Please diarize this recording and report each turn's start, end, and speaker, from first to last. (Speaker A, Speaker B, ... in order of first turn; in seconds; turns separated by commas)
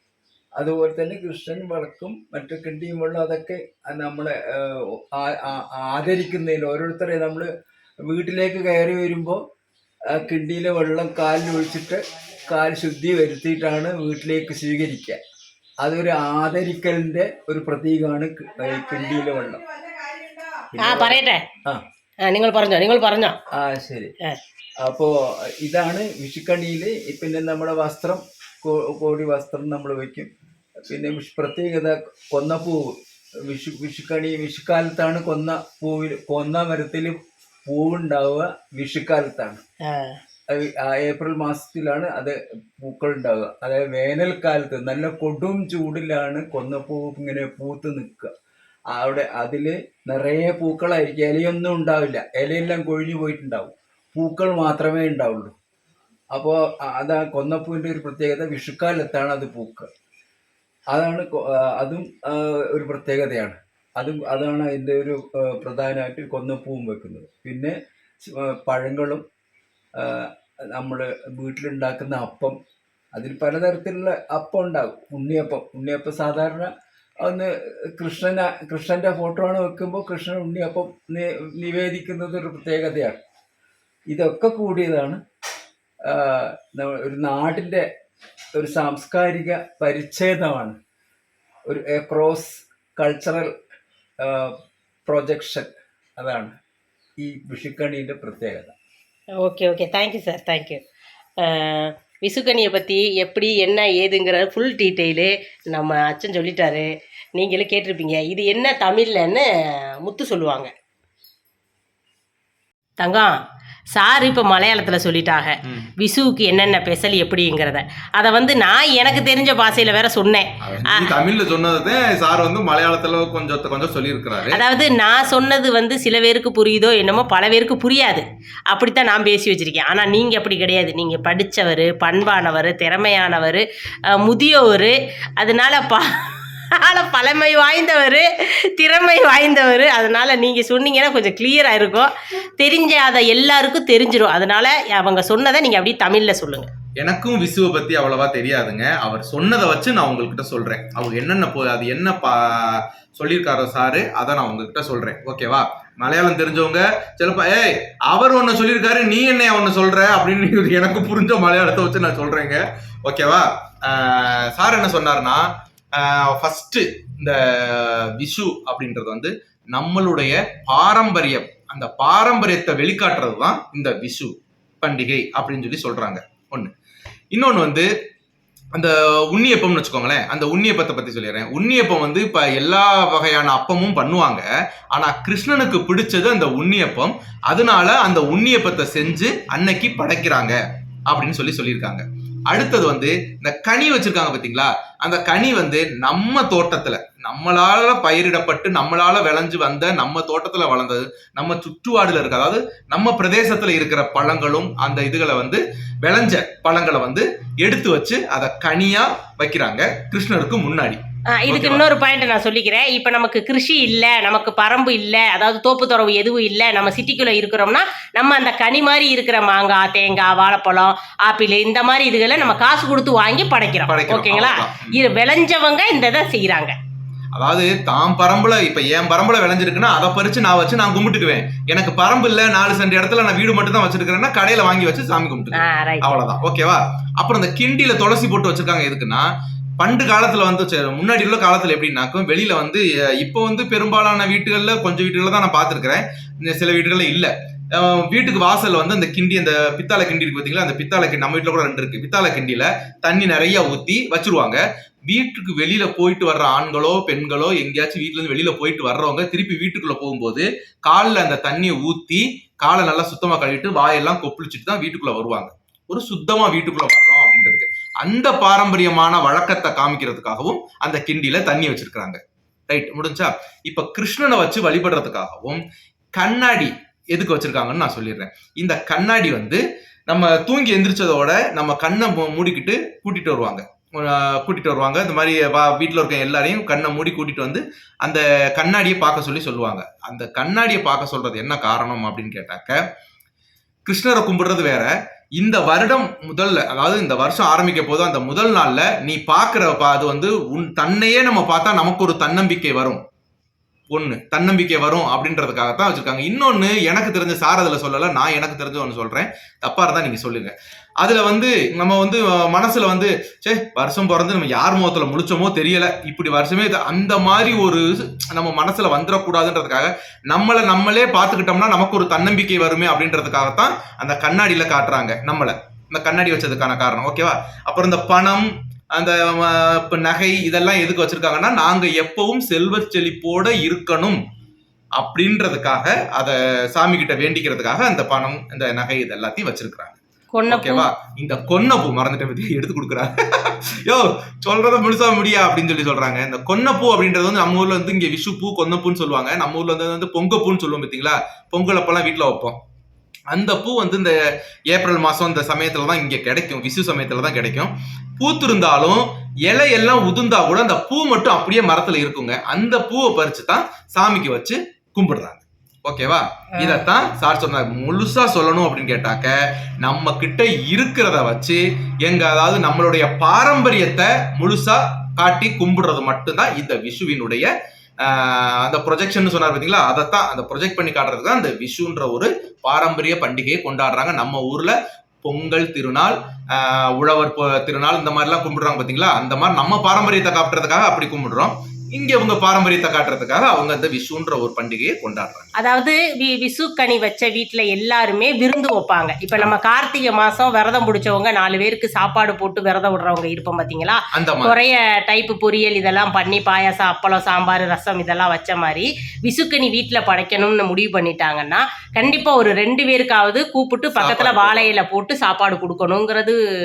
Speaker A: 0.6-7.5, Speaker A: 8.1-9.4, Speaker A: 10.1-15.2, Speaker A: 15.8-19.6, Speaker A: 20.7-21.8, Speaker B: 20.8-21.4, Speaker B: 22.2-23.4, Speaker A: 23.6-24.1, Speaker A: 24.8-30.3, Speaker A: 30.9-32.8, Speaker A: 33.5-39.6, Speaker B: 39.8-40.2, Speaker A: 40.5-48.3, Speaker A: 48.9-55.5, Speaker A: 56.3-59.9, Speaker A: 60.9-67.7, Speaker A: 68.3-69.2, Speaker A: 70.0-72.6, Speaker A: 73.2-76.7, Speaker A: 77.2-83.2, Speaker A: 84.1-85.2, Speaker A: 86.1-87.9, Speaker A: 88.6-90.8, Speaker A: 91.7-93.5, Speaker A: 94.2-94.5, Speaker A: 95.1-96.5, Speaker A: 97.2-98.7, Speaker B: 99.4-100.8, Speaker B: 101.4-109.5, Speaker B: 110.0-110.7, Speaker B: 113.0-113.4, Speaker B: 113.9-121.1, Speaker C: 120.6-124.6, Speaker B: 124.5-146.7, Speaker C: 147.0-176.7, Speaker C: 177.3-177.9, Speaker C: 178.7-190.6, Speaker C: 191.1-211.8, Speaker B: 211.3-226.8, Speaker C: 223.9-225.0, Speaker C: 227.3-239.3, Speaker B: 235.5-236.2, Speaker C: 239.8-275.6, Speaker C: 276.2-292.8, Speaker C: 293.9-303.0, Speaker C: 303.9-334.2, Speaker C: 335.0-340.0, Speaker B: 340.3-340.9, Speaker C: 340.5-352.6, Speaker C: 353.3-354.1, Speaker C: 354.7-377.5, Speaker B: 366.6-366.9, Speaker C: 378.0-395.5, Speaker B: 395.6-416.4, Speaker C: 404.1-404.6, Speaker C: 414.0-414.7